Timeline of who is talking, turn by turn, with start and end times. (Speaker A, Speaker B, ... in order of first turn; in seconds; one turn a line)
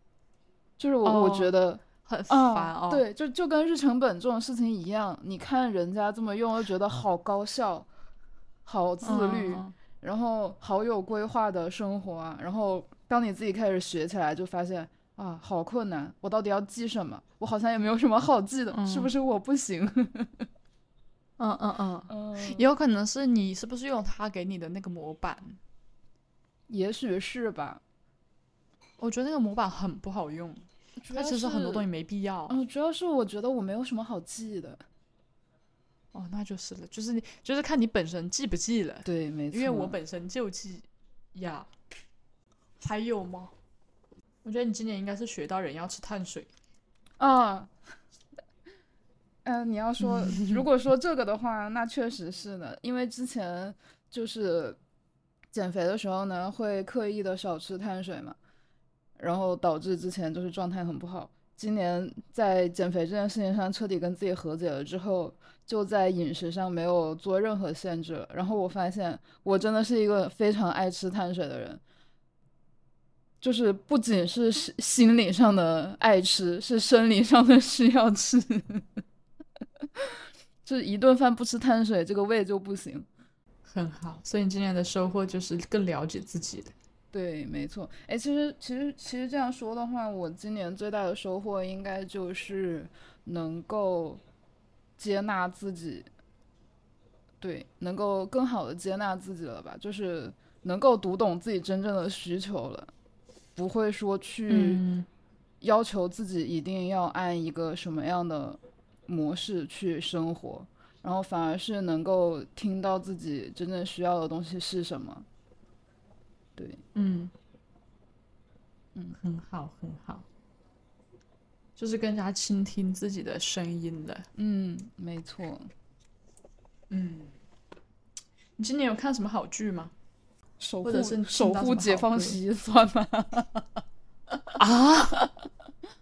Speaker A: 0.8-7.9
Speaker B: 1.0-3.0
Speaker A: 8.6-20.5
Speaker B: 9.0-9.7
Speaker B: 18.7-19.1
Speaker B: 21.4-25.6
Speaker A: 22.1-22.6
Speaker A: 26.7-27.8
Speaker B: 29.0-32.6
Speaker A: 31.0-31.8
Speaker A: 32.5-34.8
Speaker B: 36.1-41.7
Speaker A: 39.0-40.0
Speaker B: 42.8-43.5
Speaker B: 44.4-46.5
Speaker A: 47.2-47.7
Speaker A: 49.4-54.8
Speaker B: 50.0-50.6
Speaker A: 55.5-58.4
Speaker A: 59.2-71.8
Speaker A: 73.4-79.0
Speaker A: 80.0-83.1
Speaker B: 83.7-86.7
Speaker A: 87.1-94.2
Speaker A: 95.0-96.1
Speaker A: 97.4-102.9
Speaker A: 103.5-104.8
Speaker B: 104.5-105.1
Speaker A: 105.6-115.2
Speaker B: 116.9-117.3
Speaker B: 119.2-120.2
Speaker B: 121.8-124.3
Speaker A: 124.3-125.7
Speaker B: 126.9-127.3
Speaker B: 128.6-129.9
Speaker A: 130.6-133.8
Speaker B: 130.8-132.4
Speaker B: 134.5-135.3